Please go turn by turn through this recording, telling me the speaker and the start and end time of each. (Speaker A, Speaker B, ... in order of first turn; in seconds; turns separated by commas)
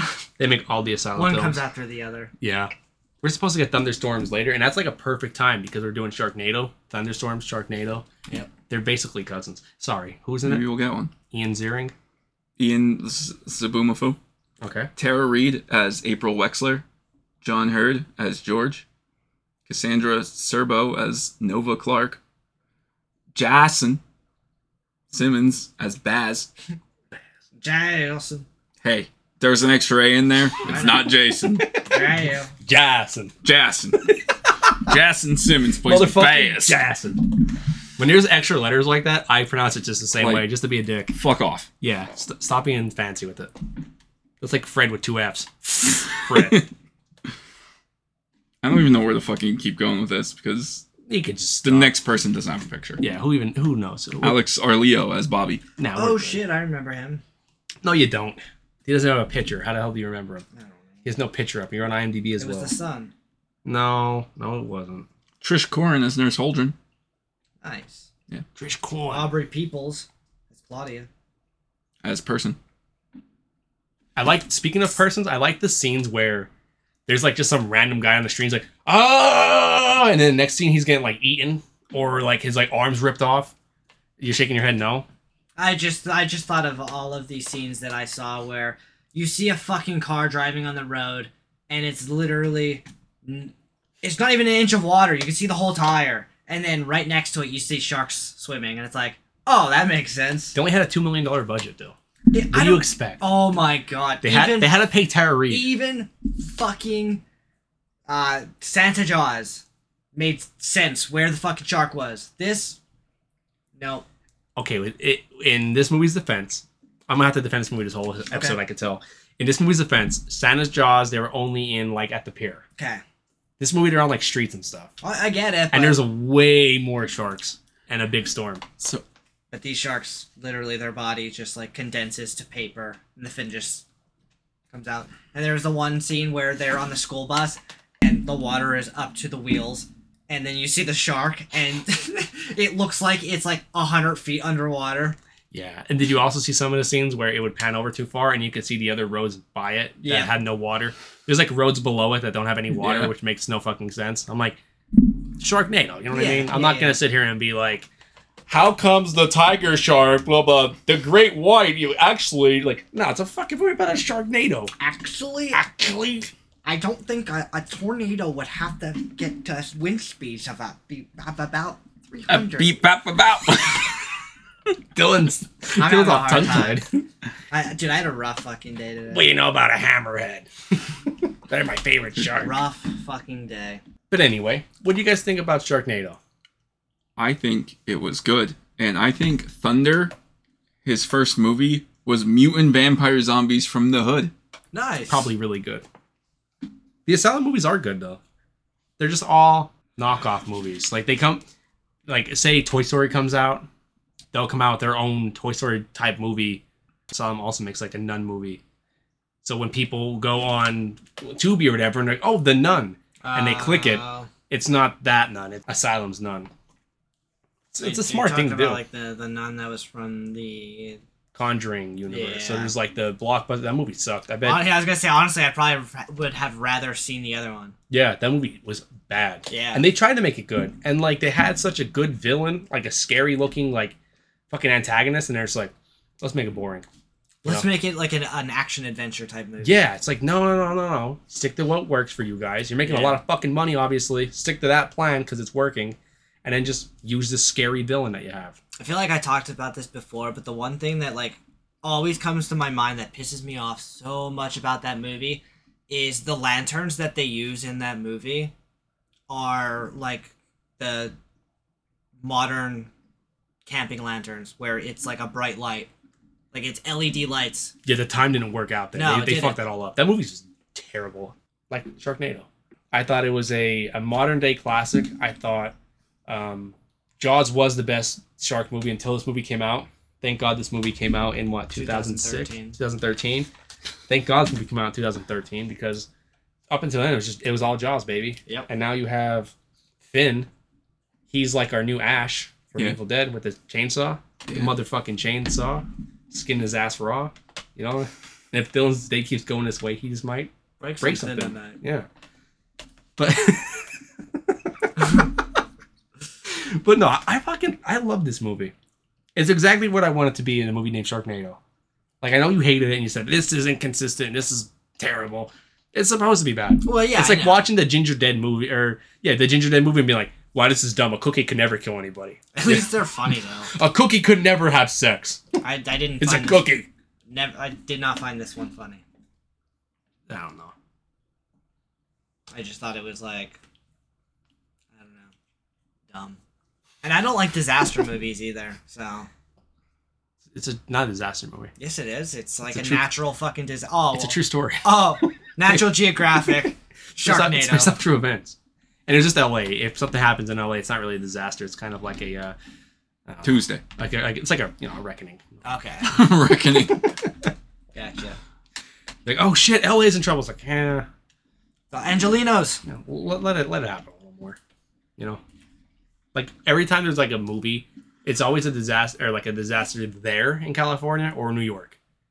Speaker A: 0.4-1.6, Speaker B: 1.1-2.3, Speaker A: 2.4-2.7, Speaker A: 3.2-8.1, Speaker A: 8.7-10.7, Speaker C: 10.4-11.1, Speaker A: 11.3-11.9, Speaker C: 12.6-14.2, Speaker A: 14.6-14.9, Speaker C: 15.0-16.8, Speaker C: 17.4-18.9, Speaker C: 19.7-22.2, Speaker C: 23.4-24.0, Speaker C: 25.1-26.5, Speaker B: 27.6-28.5, Speaker C: 28.8-31.8, Speaker B: 30.7-31.0, Speaker B: 31.9-32.5, Speaker A: 32.6-33.3, Speaker C: 33.4-34.2, Speaker C: 34.7-36.8, Speaker A: 35.8-37.4, Speaker A: 38.0-41.1, Speaker C: 40.2-40.5, Speaker C: 41.1-41.7, Speaker A: 41.8-43.5, Speaker A: 44.4-46.6, Speaker C: 46.3-46.6, Speaker C: 48.6-50.9, Speaker A: 51.1-51.9, Speaker C: 51.6-53.0, Speaker A: 53.0-54.4, Speaker C: 54.2-55.6, Speaker A: 55.8-56.4, Speaker B: 56.0-57.2, Speaker A: 57.8-60.5, Speaker B: 60.5-61.1, Speaker A: 61.0-62.7, Speaker B: 62.4-63.1, Speaker A: 63.6-65.1, Speaker C: 65.4-66.8, Speaker B: 67.6-68.1, Speaker A: 68.6-69.3, Speaker B: 69.1-71.1, Speaker C: 72.0-72.6, Speaker A: 74.2-76.5, Speaker A: 77.1-83.5, Speaker A: 84.2-85.1, Speaker B: 85.6-100.6, Speaker A: 100.5-102.0, Speaker B: 102.3-104.8, Speaker A: 102.5-103.2, Speaker A: 104.2-105.7, Speaker B: 105.5-107.2, Speaker B: 108.1-112.8, Speaker B: 113.8-114.1, Speaker A: 114.6-122.6, Speaker B: 118.3-118.6, Speaker B: 122.8-123.0, Speaker A: 123.6-124.9, Speaker B: 125.0-126.0, Speaker A: 125.7-128.8, Speaker B: 129.5-133.8, Speaker B: 134.7-145.2, Speaker A: 145.5-154.6, Speaker B: 150.0-150.3, Speaker C: 152.8-153.1, Speaker A: 155.4-157.9, Speaker B: 156.1-157.0, Speaker A: 158.5-164.7, Speaker B: 164.8-165.6, Speaker A: 165.5-166.3, Speaker B: 166.7-172.8, Speaker C: 172.3-174.1, Speaker A: 174.9-177.0, Speaker B: 175.8-176.8, Speaker B: 177.5-179.3, Speaker A: 179.1-182.5, Speaker B: 182.4-183.8, Speaker A: 184.1-186.2, Speaker C: 187.2-190.1, Speaker C: 190.8-194.3, Speaker B: 194.7-195.3, Speaker A: 195.1-195.8, Speaker A: 197.1-198.2, Speaker A: 199.0-201.4, Speaker A: 202.1-203.7, Speaker A: 204.3-208.6, Speaker A: 209.4-216.5, Speaker B: 213.2-214.3, Speaker A: 217.7-218.8, Speaker B: 217.8-221.0, Speaker A: 221.3-224.7, Speaker B: 222.1-222.7, Speaker B: 224.4-227.8, Speaker A: 227.9-234.0, Speaker B: 229.5-229.9, Speaker A: 234.5-236.9, Speaker B: 237.4-239.8, Speaker A: 239.6-248.6, Speaker B: 242.8-243.2, Speaker B: 248.8-258.5, Speaker B: 259.3-261.1, Speaker B: 262.2-262.9, Speaker B: 263.7-265.9, Speaker B: 266.5-267.7, Speaker A: 267.9-275.7, Speaker B: 268.9-269.6, Speaker A: 276.3-283.5, Speaker B: 281.7-282.8, Speaker A: 284.1-286.1, Speaker A: 286.7-290.5, Speaker A: 291.3-302.1, Speaker B: 300.8-301.8, Speaker A: 303.2-305.4, Speaker A: 306.4-308.7, Speaker A: 309.4-311.6, Speaker A: 312.2-322.9, Speaker B: 316.9-317.7, Speaker B: 322.5-323.7, Speaker A: 323.7-325.4, Speaker B: 325.6-326.7, Speaker A: 326.2-326.9, Speaker B: 327.3-329.0, Speaker A: 330.3-330.7, Speaker B: 332.5-333.6, Speaker B: 334.9-335.3, Speaker B: 336.1-336.4, Speaker B: 337.0-339.3, Speaker A: 340.5-341.7, Speaker B: 341.8-348.0, Speaker A: 342.7-343.0, Speaker A: 344.1-344.9, Speaker A: 347.2-348.6, Speaker A: 349.1-352.6, Speaker A: 353.3-355.6, Speaker C: 353.4-353.8, Speaker B: 355.6-356.1, Speaker C: 356.0-357.1, Speaker B: 357.9-358.4, Speaker A: 359.3-361.1, Speaker B: 361.9-362.8, Speaker A: 362.9-364.6, Speaker A: 366.3-372.0